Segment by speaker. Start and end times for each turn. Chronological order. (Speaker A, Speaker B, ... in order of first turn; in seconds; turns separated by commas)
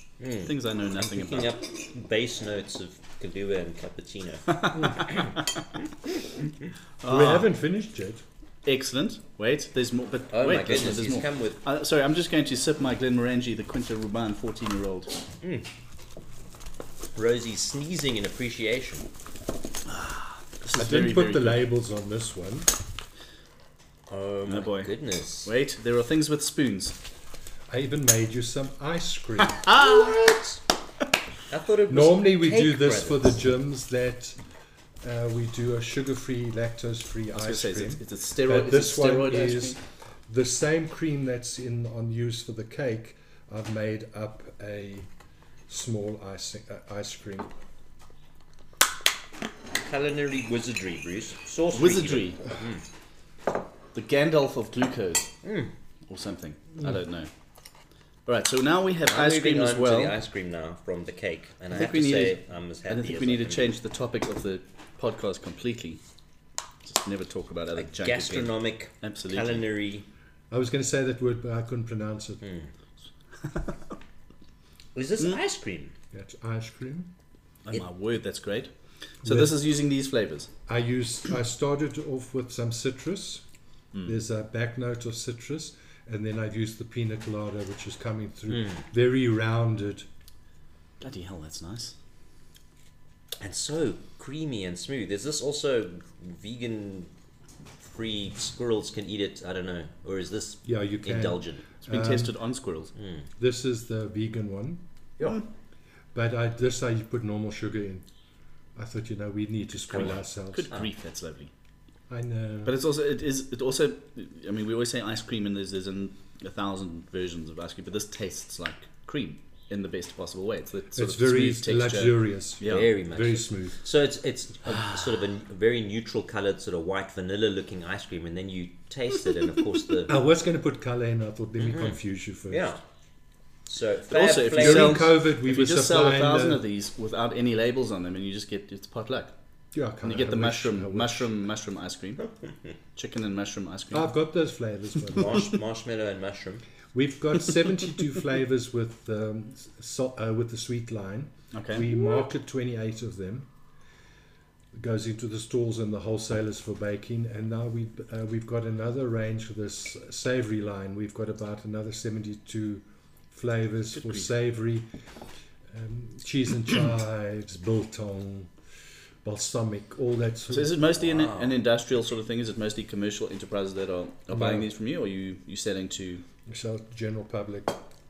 Speaker A: 0.2-5.3, Speaker B: 0.5-1.5, Speaker B: 4.6-5.4, Speaker B: 7.0-7.5, Speaker C: 7.0-8.2, Speaker B: 8.7-15.1, Speaker A: 10.3-11.6, Speaker A: 17.1-19.1, Speaker B: 19.9-21.6, Speaker C: 20.8-22.7, Speaker A: 24.1-25.5, Speaker B: 24.5-24.9, Speaker B: 25.4-27.0, Speaker C: 27.7-29.8, Speaker B: 29.7-30.1, Speaker A: 29.8-30.6, Speaker A: 31.5-33.4, Speaker C: 31.9-34.4, Speaker C: 35.0-39.8, Speaker B: 37.3-39.8, Speaker C: 40.3-45.1, Speaker C: 45.7-47.5, Speaker A: 49.8-52.8, Speaker B: 51.7-52.4, Speaker B: 53.9-55.3, Speaker A: 55.4-55.7, Speaker B: 56.1-57.3, Speaker B: 58.3-60.2, Speaker A: 59.1-63.7, Speaker B: 61.7-66.0, Speaker B: 66.8-69.6, Speaker A: 67.8-70.1, Speaker C: 70.5-72.4, Speaker A: 72.4-72.7, Speaker B: 73.5-73.8, Speaker A: 75.0-75.9, Speaker C: 76.1-77.1, Speaker B: 77.7-78.7, Speaker B: 79.2-80.5, Speaker C: 79.2-79.5, Speaker C: 80.7-83.4, Speaker B: 83.9-84.2, Speaker C: 84.0-90.1, Speaker A: 88.5-88.8, Speaker B: 91.0-92.0, Speaker A: 93.4-97.1, Speaker A: 97.8-101.6, Speaker C: 100.7-102.4, Speaker B: 101.8-102.9, Speaker A: 103.0-103.3, Speaker C: 103.4-105.3, Speaker B: 105.2-105.5, Speaker C: 106.1-108.1, Speaker C: 108.8-110.7, Speaker B: 109.9-111.5, Speaker C: 112.1-112.8, Speaker B: 112.7-122.9, Speaker C: 121.0-123.8, Speaker A: 122.6-130.2, Speaker C: 130.1-132.7, Speaker A: 131.6-132.0, Speaker A: 132.5-132.8, Speaker A: 133.7-135.0, Speaker B: 134.1-139.3, Speaker C: 134.6-136.6, Speaker C: 139.7-141.3, Speaker B: 140.0-142.3, Speaker B: 142.9-144.1, Speaker C: 143.9-145.5, Speaker A: 145.1-146.6, Speaker C: 146.9-153.5, Speaker B: 151.5-151.9, Speaker C: 154.7-164.9, Speaker B: 164.0-164.3, Speaker C: 165.7-168.5, Speaker C: 169.2-170.8, Speaker B: 170.5-176.2, Speaker A: 171.0-171.5, Speaker C: 174.3-174.7, Speaker C: 176.5-177.8